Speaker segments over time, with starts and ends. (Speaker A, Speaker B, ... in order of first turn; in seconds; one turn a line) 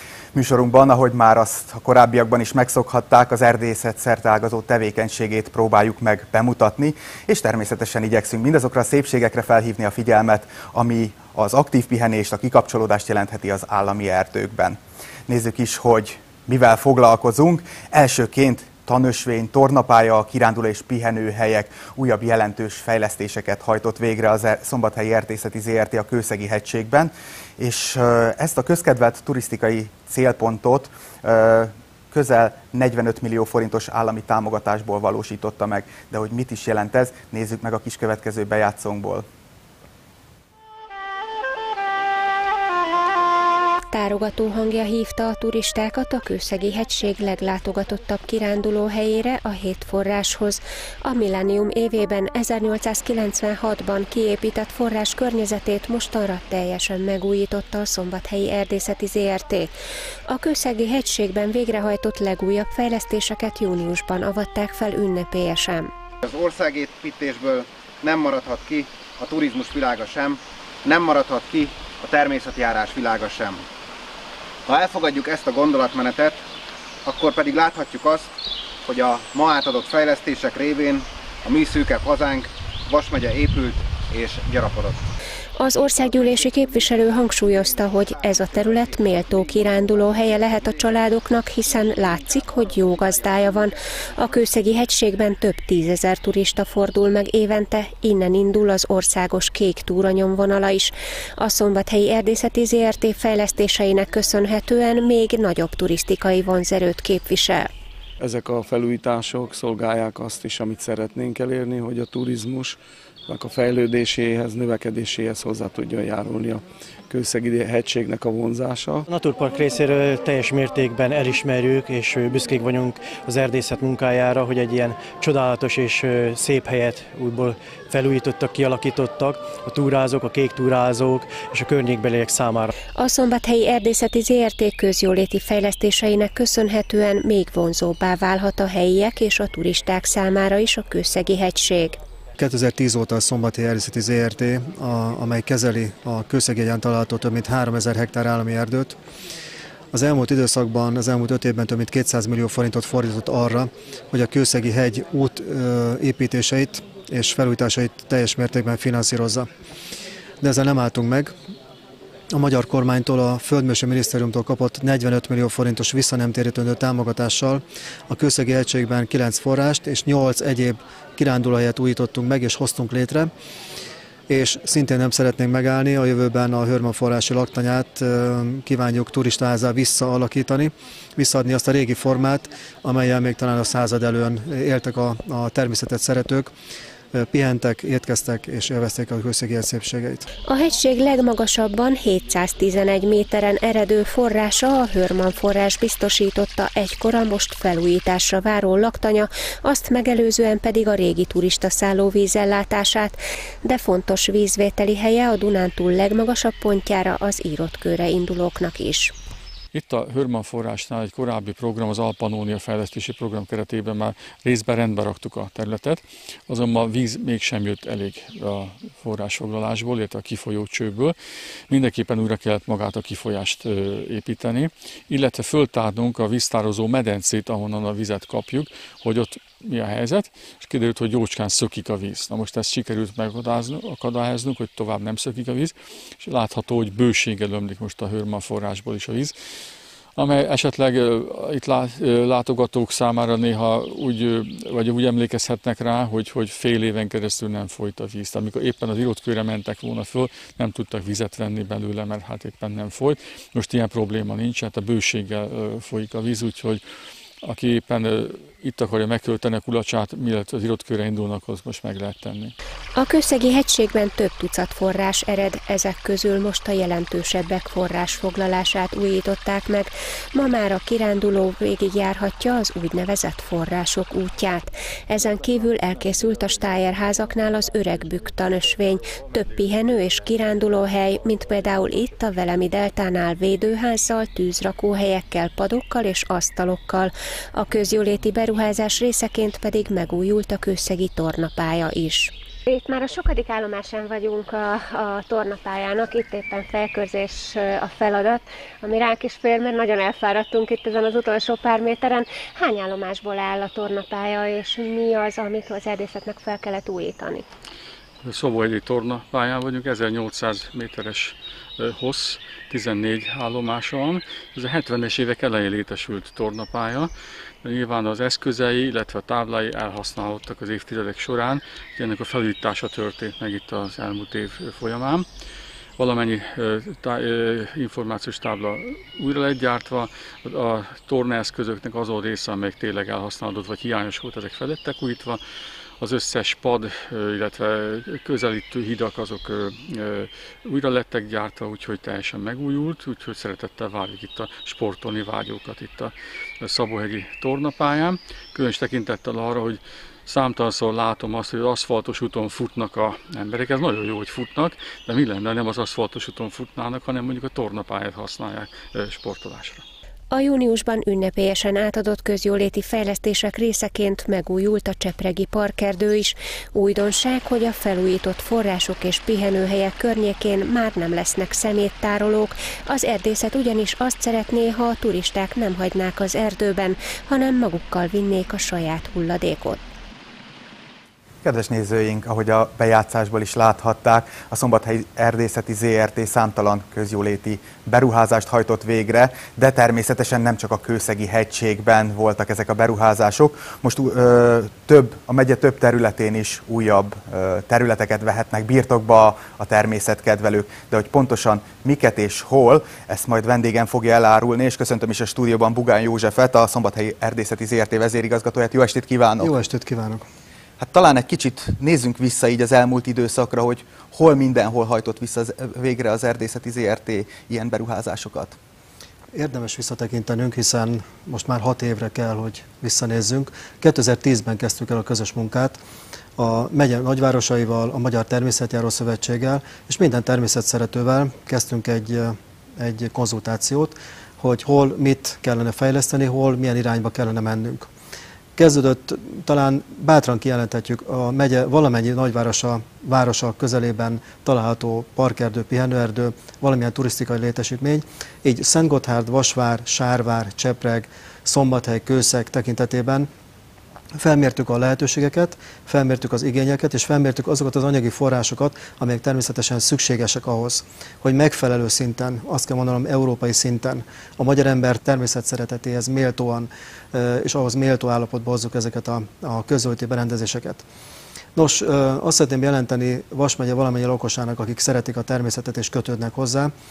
Speaker A: 0.3-39.2
Speaker B: 43.9-59.7
Speaker B: 60.3-65.9
Speaker C: 66.2-73.6
Speaker C: 74.7-76.4
Speaker C: 77.0-78.3
Speaker C: 78.8-85.0
Speaker B: 85.6-107.7
Speaker D: 108.2-119.0
Speaker E: 119.1-132.7
Speaker B: 133.0-142.0
Speaker F: 142.4-149.0
Speaker F: 149.9-159.5
Speaker F: 160.4-161.3
Speaker F: 162.3-173.3
Speaker F: 174.3-186.5
Speaker F: 187.1-190.3
Speaker B: 190.5-209.1
Speaker G: 209.7-221.2
Speaker G: 221.7-239.3
Speaker G: 240.2-256.8
Speaker G: 257.4-262.5
Speaker B: 262.9-307.4
Speaker G: 308.2-317.1
Speaker G: 317.6-325.3
Speaker G: 326.0-335.4
Speaker G: 336.0-359.8
Speaker B: 360.3-379.8
Speaker A: 381.4-409.5
Speaker F: 409.4-410.2
Speaker A: 410.8-418.6
Speaker F: 419.3-425.8
Speaker F: 426.4-437.9
Speaker F: 438.6-453.3
Speaker F: 454.1-470.8
Speaker F: 471.5-476.7